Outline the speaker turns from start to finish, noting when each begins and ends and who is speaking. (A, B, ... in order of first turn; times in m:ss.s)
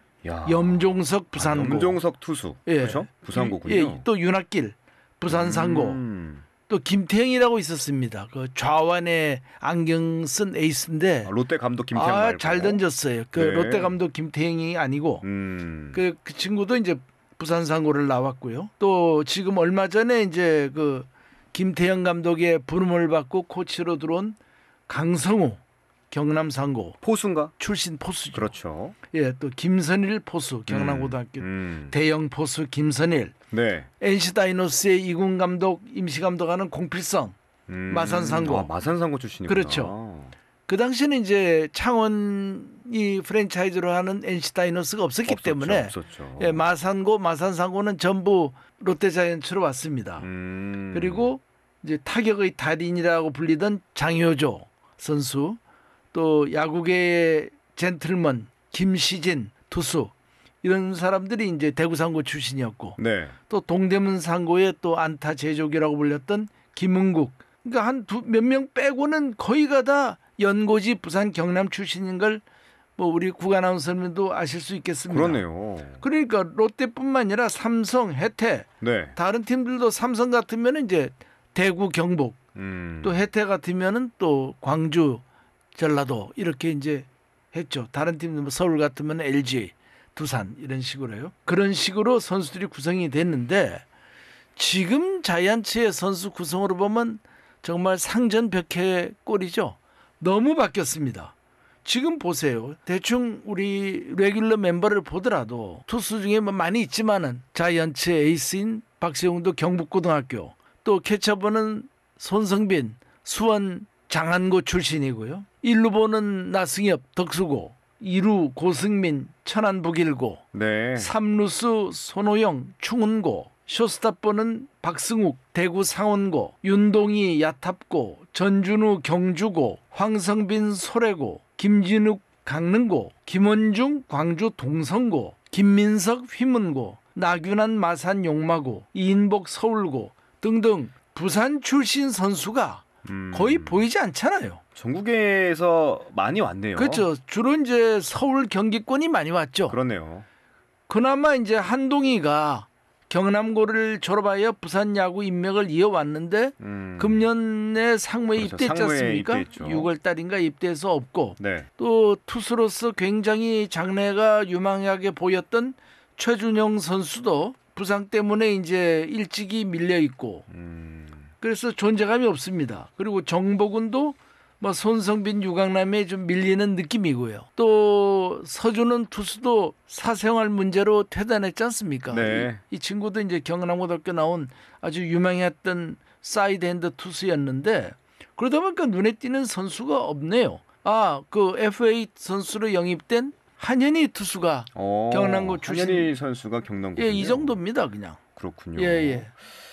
0:00.2-0:04.1 A
0:00.4-0:02.0 B
0:02.7-0:06.0 B
0:05.3-0:06.5 A
0:06.7-0:11.3 B
0:11.2-0:12.8 A
0:11.9-0:15.2 B
0:13.3-0:14.0 A
0:15.2-0:16.0 A
0:15.9-0:27.0 B
0:27.0-0:27.5 A
0:27.6-0:28.5 B
0:28.3-0:29.0 A
0:29.1-0:33.3 B
0:30.7-0:32.0 A
0:33.5-0:33.9 A
0:34.0-0:37.4 B
0:37.7-0:40.4 A
0:37.9-0:38.7 B
0:39.5-0:39.9 B
0:40.7-0:50.3 B
0:45.3-0:46.6 A
0:50.2-0:51.3 A
0:50.9-0:55.6 B
0:56.1-1:03.0 B
1:03.0-1:03.4 A
1:03.5-1:12.4 B
1:13.0-1:15.4 B
1:15.1-1:16.0 A
1:16.0-1:22.4 B
1:18.8-1:19.2 A
1:22.6-1:23.2 A
1:23.0-1:25.2 B
1:25.8-1:33.8 B
1:34.6-1:41.3 B
1:41.8-2:00.4 B
2:00.5-2:01.1 A
2:01.0-2:24.6 B
2:23.0-2:23.8 A
2:24.8-2:27.1 A
2:26.8-2:29.8 B
2:29.7-2:30.3 A
2:30.9-2:50.5 B
2:36.6-2:37.3 A
2:38.4-2:39.9 A
2:41.4-2:41.7 A
2:50.5-2:51.3 A
2:51.4-3:16.1 B
3:02.1-3:02.6 A
3:14.8-3:17.6 A
3:17.0-3:18.2 B
3:18.4-3:19.3 A
3:18.8-3:19.3 B